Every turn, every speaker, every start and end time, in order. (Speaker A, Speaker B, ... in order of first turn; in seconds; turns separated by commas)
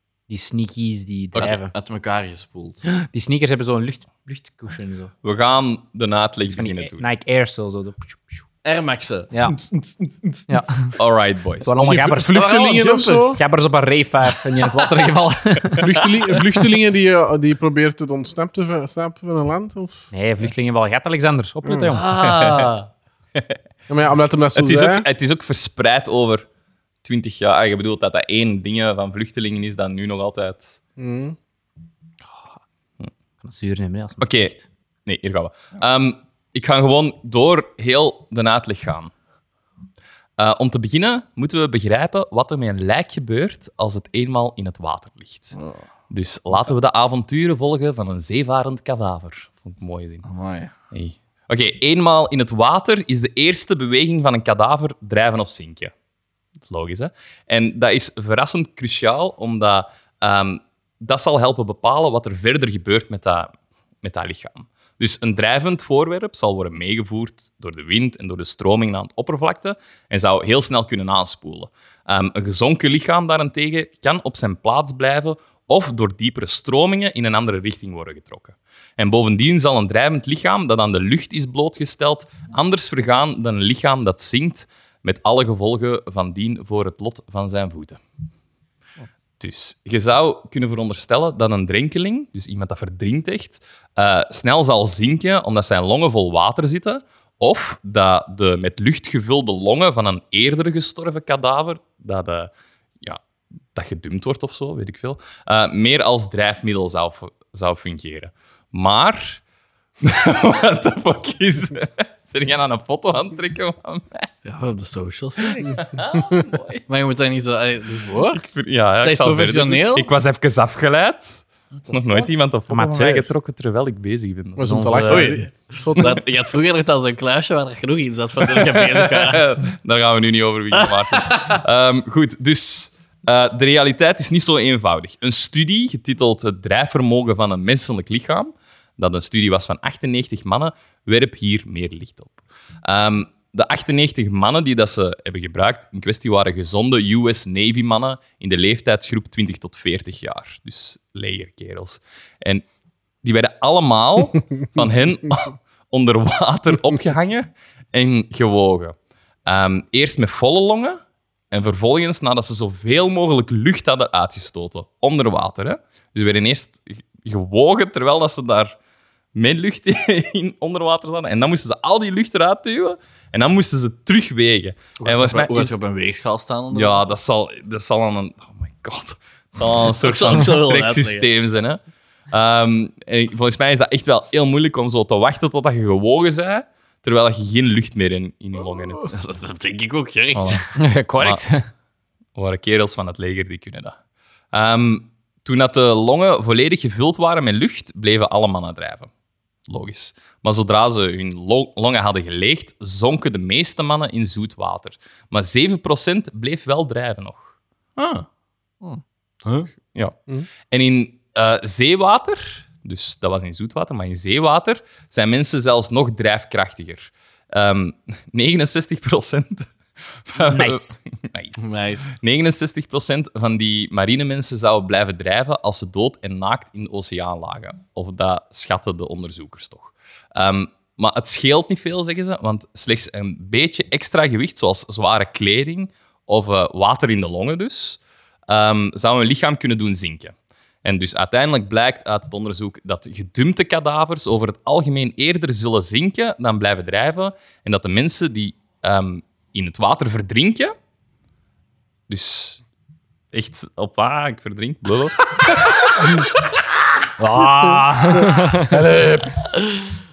Speaker A: 0.3-1.7, Speaker B: 1.4-2.8, Speaker A: 2.9-5.1, Speaker C: 5.2-7.0, Speaker A: 6.5-8.4, Speaker B: 8.6-10.4, Speaker A: 9.3-9.6, Speaker A: 10.5-10.9, Speaker C: 11.0-12.1, Speaker A: 11.6-12.6, Speaker D: 11.8-13.4, Speaker B: 12.3-13.4, Speaker A: 13.3-15.9, Speaker D: 15.8-20.1, Speaker A: 20.1-22.1, Speaker D: 21.6-21.9, Speaker B: 21.9-22.9, Speaker C: 22.2-22.7, Speaker D: 23.9-25.1, Speaker C: 24.6-26.5, Speaker C: 27.0-30.8, Speaker D: 31.0-31.4, Speaker A: 33.4-34.7, Speaker C: 34.2-34.5, Speaker C: 35.1-39.1, Speaker C: 40.4-45.6, Speaker B: 45.5-45.8, Speaker C: 46.1-50.2, Speaker B: 50.2-50.7, Speaker C: 50.9-55.9, Speaker C: 56.6-88.0, Speaker C: 89.4-103.2, Speaker C: 103.7-109.4, Speaker C: 110.0-114.3, Speaker B: 114.5-115.9, Speaker C: 115.6-116.8, Speaker B: 116.9-120.1, Speaker C: 118.3-125.3, Speaker B: 121.9-122.2, Speaker A: 122.7-123.3, Speaker D: 124.6-125.5, Speaker A: 124.8-125.1, Speaker B: 125.0-129.6, Speaker C: 128.5-152.7, Speaker B: 130.8-131.6, Speaker C: 153.2-168.8, Speaker C: 169.3-175.7, Speaker B: 175.0-177.2, Speaker C: 176.7-181.8, Speaker B: 180.0-181.3, Speaker C: 182.3-189.2, Speaker B: 189.1-190.7, Speaker C: 190.3-190.6, Speaker A: 190.8-191.7, Speaker C: 191.2-191.4, Speaker C: 192.3-194.0, Speaker C: 194.5-199.1, Speaker C: 199.7-207.6, Speaker B: 208.0-208.3, Speaker C: 209.5-210.2, Speaker C: 210.7-250.7, Speaker A: 220.5-221.0, Speaker B: 221.6-222.2, Speaker C: 252.1-252.6, Speaker C: 253.3-256.2, Speaker A: 257.2-258.8, Speaker D: 258.7-259.5, Speaker B: 259.6-259.9